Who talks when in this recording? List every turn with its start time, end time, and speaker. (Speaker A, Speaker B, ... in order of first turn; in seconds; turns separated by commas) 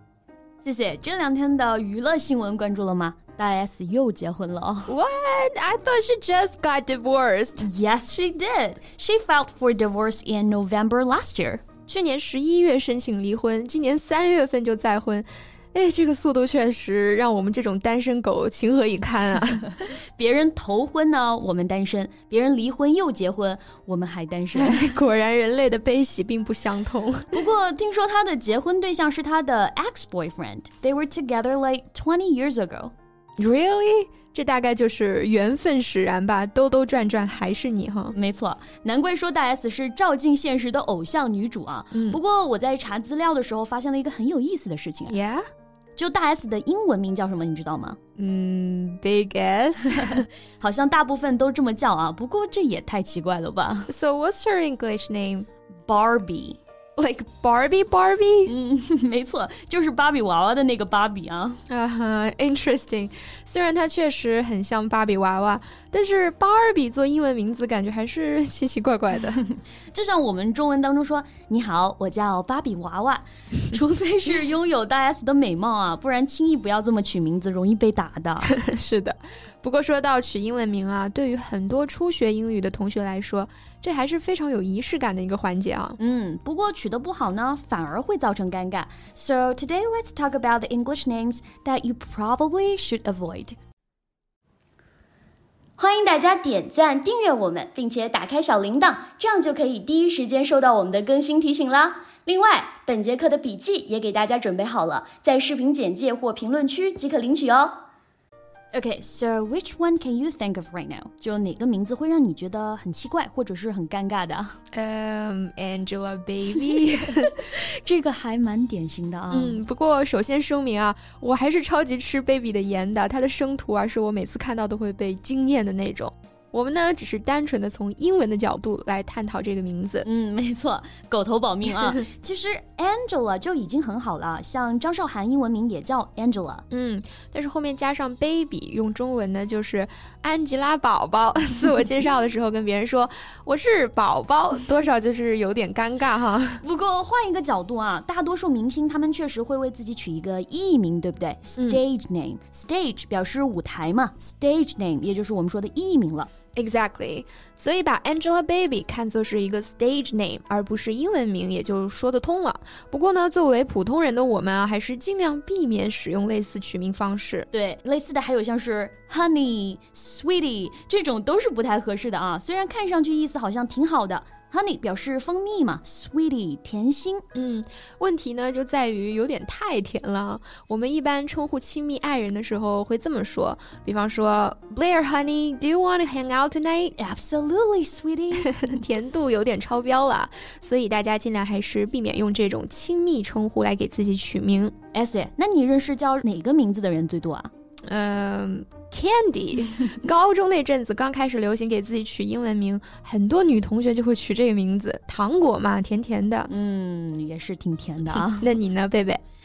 Speaker A: 0.6-4.9, Speaker B: 4.9-7.7, Speaker A: 7.6-11.6, Speaker B: 11.9-19.7, Speaker A: 20.1-24.9, Speaker B: 24.5-27.4, Speaker A: 27.3-32.9, Speaker B: 33.4-38.1, Speaker A: 38.1-45.2, Speaker B: 41.9-42.2, Speaker B: 45.1-45.4, Speaker A: 46.0-48.0, Speaker B: 48.2-50.3, Speaker A: 50.0-53.9, Speaker B: 53.9-55.5, Speaker A: 55.9-56.6, Speaker B: 57.0-58.5, Speaker A: 58.5-61.6, Speaker B: 61.7-69.4, Speaker A: 69.9-78.5, Speaker B: 78.4-86.0, Speaker A: 86.0-93.5, Speaker A: 95.8-107.8, Speaker A: 108.7-114.6, Speaker B: 114.7-117.3, Speaker A: 117.2-119.6, Speaker B: 119.3-130.1, Speaker A: 130.0-136.6, Speaker B: 136.7-146.6, Speaker A: 146.6-156.3, Speaker B: 156.5-167.5, Speaker A: 167.5-177.2, Speaker B: 177.3-186.9, Speaker A: 186.9-188.7, Speaker B: 188.4-194.7, Speaker A: 194.9-197.5, Speaker B: 197.9-206.5, Speaker A: 206.5-208.5, Speaker B: 208.1-209.2